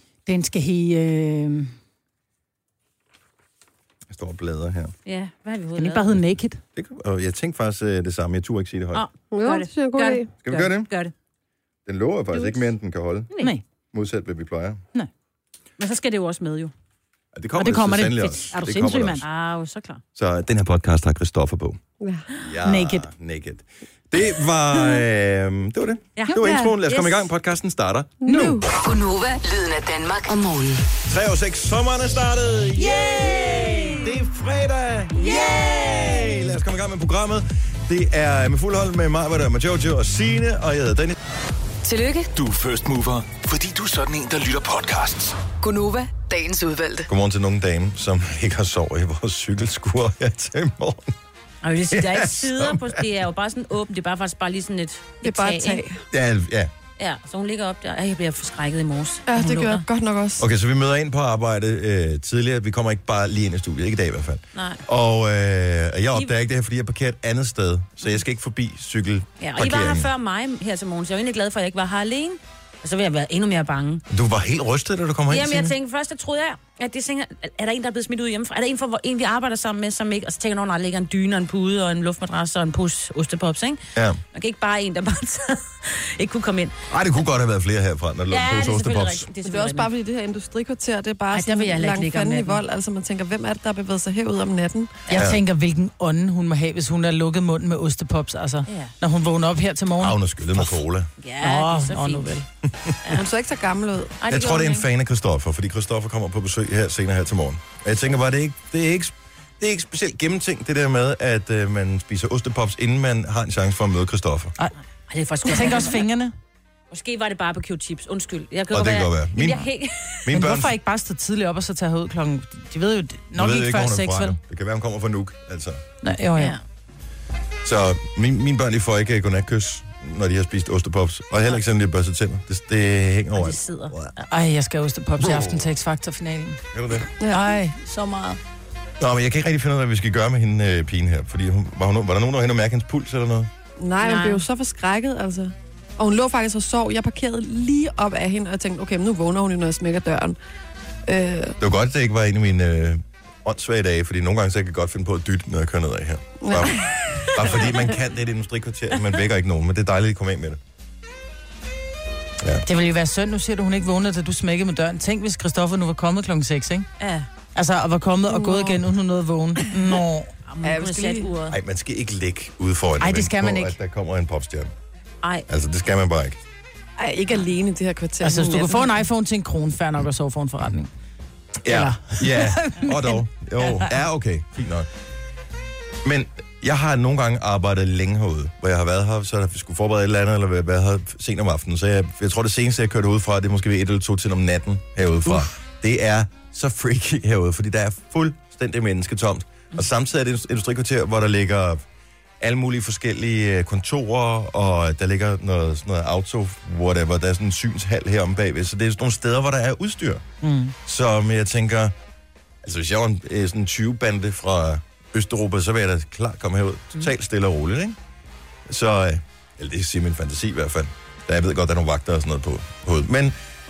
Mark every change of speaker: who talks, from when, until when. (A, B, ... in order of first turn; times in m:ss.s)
0:00.3-0:01.7 A
0:04.1-0:04.9 B
0:05.1-0:06.2 C
0:05.8-0:06.6 A
0:06.8-0:09.0 B
0:08.9-0:11.1 C
0:09.3-0:10.3 D
0:10.4-0:10.9 B
0:11.9-0:13.3 B
0:13.3-0:13.6 C
0:13.9-0:14.8 B
0:15.8-0:16.7 C
0:17.4-0:19.2 B
0:17.6-0:19.2 A
0:19.2-0:20.0 C
0:20.2-0:21.8 B
0:22.0-0:22.3 D
0:22.4-0:28.6 B
0:22.6-0:23.1 A
0:26.2-0:27.3 C
0:26.3-0:26.8 D
0:28.2-0:28.7 D
0:28.7-0:30.9 E
0:31.1-0:41.2 B
0:32.9-0:34.0 A
0:35.2-0:36.3 A
0:41.8-0:42.3 E
0:42.4-0:45.4 F
0:45.6-0:47.1 E
0:47.1-0:51.1 B
0:51.6-0:55.8 C
0:51.9-0:52.9 B
0:55.2-0:56.0 D
0:56.1-0:56.7 B
0:57.0-0:59.8 C
0:59.3-1:00.5 D
1:00.4-1:10.1 B
1:04.6-1:04.8 C
1:09.4-1:14.0 C
1:14.1-1:15.8 B
1:15.3-1:23.8 C
1:24.0-1:24.2 B
1:24.3-1:26.8 C
1:26.9-1:29.3 B
1:28.3-1:29.9 C
1:29.4-1:35.0 D
1:31.3-1:32.6 C
1:35.1-1:40.8 A
1:35.1-1:35.4 B
1:38.7-1:38.9 C
1:40.0-1:41.1 B
1:41.2-1:42.4 C
1:41.4-1:42.5 A
1:42.7-1:43.0 B
1:43.1-1:44.2 D
1:44.2-1:44.9 C
1:44.3-1:54.5 B
1:55.1-1:56.0 C
1:55.4-1:56.3 A
1:56.9-2:00.3 C
1:58.7-1:59.7 B
2:00.2-2:00.7 B
2:00.3-2:04.4 A
2:03.4-2:05.8 B
2:06.0-2:06.6 A
2:06.4-2:06.6 C
2:07.6-2:14.1 B
2:13.4-2:13.9 C
2:14.2-2:16.6 A
2:15.2-2:15.7 B
2:16.7-2:17.1 B
2:17.2-2:17.5 D
2:17.3-2:18.4 A
2:19.0-2:23.5 B
2:23.8-2:30.4 D
2:31.1-2:31.6 D
2:31.6-2:40.6 B
2:36.4-2:37.5 D
2:42.6-2:46.9 A
2:47.0-2:47.3 C
2:47.6-2:50.3 A
2:48.3-2:48.8 D
2:49.6-2:50.0 D
2:50.5-2:51.6 C
2:50.6-2:51.3 D
2:51.5-2:54.7 B
2:53.0-2:53.8 A
2:55.2-2:55.5 C
2:55.5-2:56.4 B
2:57.0-2:59.0 D
2:58.2-3:00.9 A
3:01.6-3:04.9 B
3:01.7-3:03.9 A
3:06.0-3:21.8 B
3:22.4-3:30.2 B
3:30.4-3:30.8 A
3:30.8-3:32.0 B
3:32.6-3:38.0 B
3:38.7-3:43.4 B